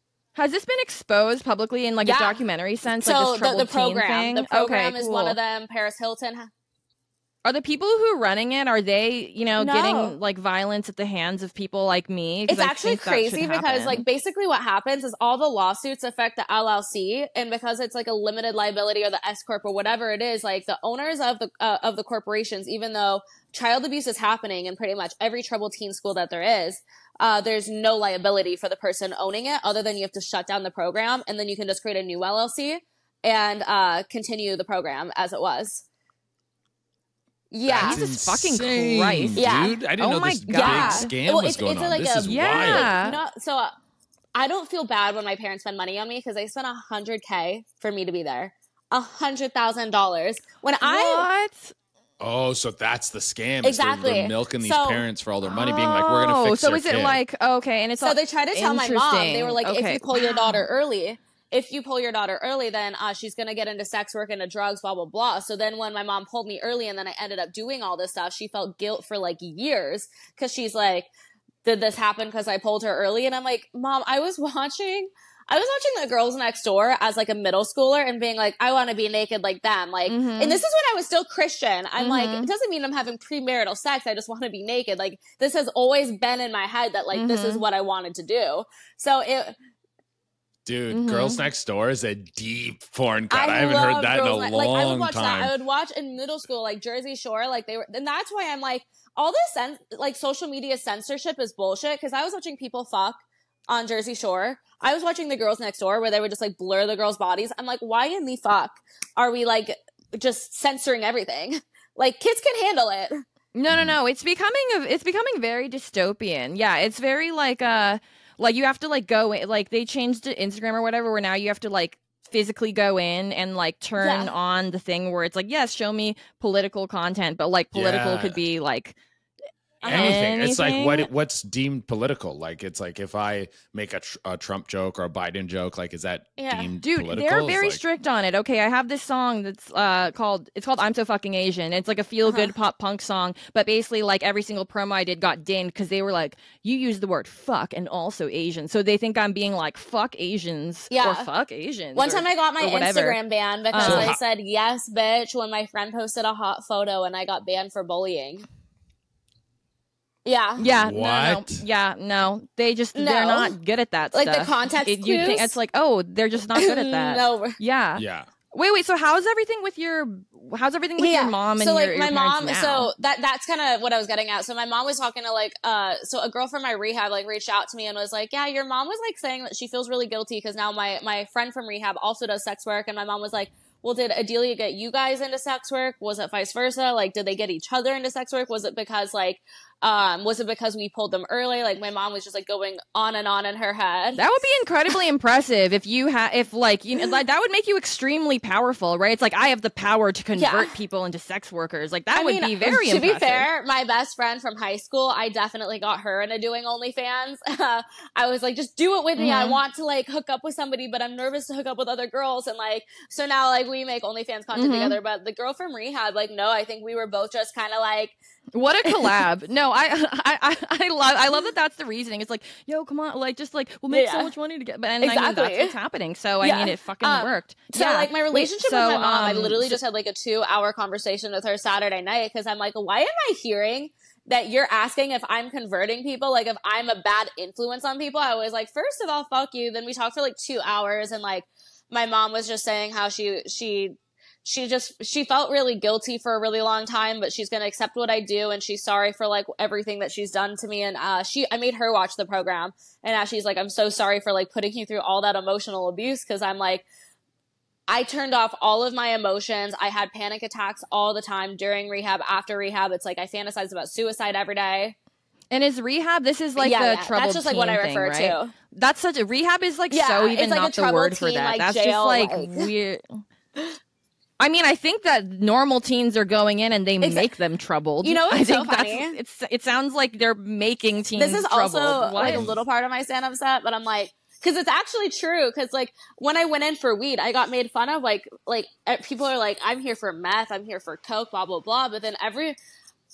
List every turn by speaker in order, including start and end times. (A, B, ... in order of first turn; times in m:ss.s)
0:00.4-0:05.4 A
0:02.0-0:02.4 B
0:03.0-0:06.5 B
0:07.4-0:14.0 A
0:09.6-0:10.2 B
0:12.5-0:35.8 B
0:37.5-0:38.0 B
0:37.7-0:43.0 C
0:37.8-0:41.1 A
0:39.4-0:39.8 B
0:40.5-0:43.7 B
0:42.3-0:43.2 A
0:44.4-0:51.3 B
0:50.8-0:51.7 A
0:52.2-0:57.2 C
0:53.6-0:55.0 B
0:55.5-1:00.7 A
0:58.0-1:11.1 B
1:11.6-1:29.6 B
1:20.1-1:20.6 A
1:22.0-1:22.5 A
1:27.1-1:27.6 A
1:30.6-1:35.5 C
1:30.9-1:31.4 A
1:33.3-1:53.2 B
1:53.6-2:09.0 A
2:04.0-2:04.3 B
2:07.7-2:08.4 C
2:09.8-2:10.4 B
2:09.8-2:11.1 A
2:09.8-2:17.8 C
2:16.4-2:16.7 B
2:16.8-2:33.2 A
2:22.3-2:22.5 B
2:30.9-2:31.3 B
2:32.0-2:38.5 B
2:33.7-2:34.1 A
2:33.8-2:34.2 C
2:40.2-2:40.6 B
2:40.6-2:52.9 A
2:40.8-2:41.6 C
2:43.0-2:43.6 B
2:44.1-2:45.5 B
2:46.6-2:47.6 B
2:48.0-2:48.3 C
2:51.0-3:14.3 B
3:14.2-3:23.5 A
3:20.4-3:20.7 B
3:22.1-3:38.2 B
3:29.2-3:29.6 A
3:34.6-3:35.0 A
3:38.5-3:49.8 A
3:38.9-3:39.1 B
3:43.9-3:44.3 B
3:45.0-3:45.8 B
3:46.4-4:16.9 B
4:17.9-4:25.0 B
4:25.5-4:33.2 A
4:26.6-4:28.5 B
4:29.9-4:32.7 B
4:34.4-4:42.5 A
4:37.0-4:37.3 B
4:38.0-4:39.2 B
4:41.2-4:52.6 B
4:42.3-4:42.6 C